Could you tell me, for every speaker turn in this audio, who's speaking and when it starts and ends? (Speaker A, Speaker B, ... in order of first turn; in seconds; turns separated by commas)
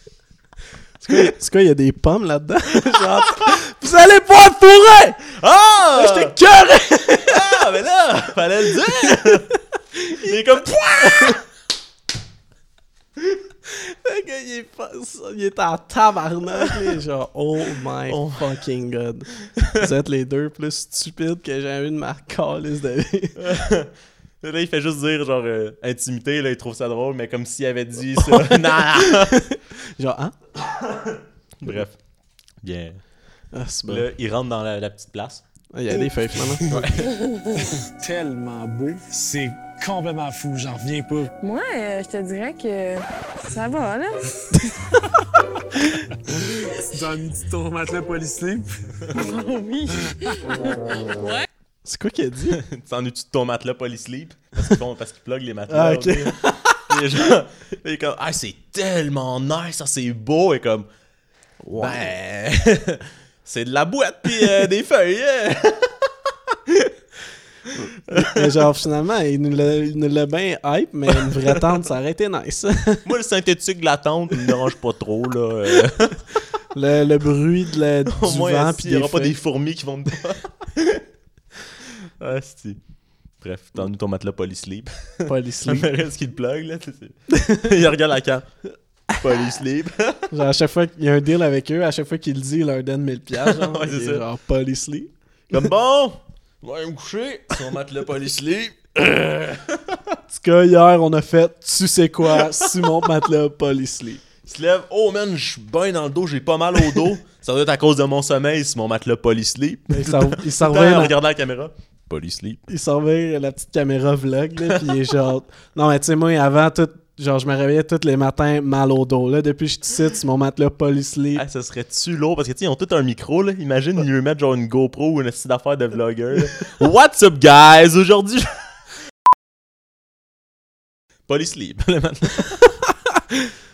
Speaker A: 1.0-5.3, Speaker B: 5.3-6.3, Speaker A: 5.9-7.6, Speaker B: 7.3-9.5, Speaker A: 9.0-9.4, Speaker A: 10.1-11.3, Speaker B: 10.2-11.4, Speaker A: 13.7-23.4, Speaker B: 18.1-18.5, Speaker B: 23.4-29.4, Speaker A: 28.2-30.4, Speaker B: 30.9-32.0, Speaker B: 32.6-33.0, Speaker A: 33.5-34.1, Speaker B: 33.9-35.4, Speaker A: 35.7-36.8, Speaker B: 36.7-37.1, Speaker C: 38.0-41.3, Speaker D: 41.4-44.2, Speaker C: 46.9-48.7, Speaker A: 51.9-52.6, Speaker B: 52.6-60.9, Speaker A: 55.7-56.8, Speaker A: 61.6-62.1, Speaker B: 61.8-65.9, Speaker B: 68.1-68.4, Speaker A: 68.1-73.0, Speaker B: 73.0-76.2, Speaker A: 76.7-79.4, Speaker B: 78.1-81.0, Speaker B: 82.2-82.8, Speaker B: 83.4-88.5, Speaker A: 85.3-85.9, Speaker A: 87.3-87.7, Speaker B: 89.2-90.2, Speaker A: 90.3-95.6, Speaker B: 93.4-94.2, Speaker B: 95.5-100.0, Speaker A: 100.3-104.2, Speaker B: 104.5-112.6, Speaker A: 109.9-111.1, Speaker A: 112.7-121.4, Speaker B: 121.4-128.5, Speaker B: 131.3-132.6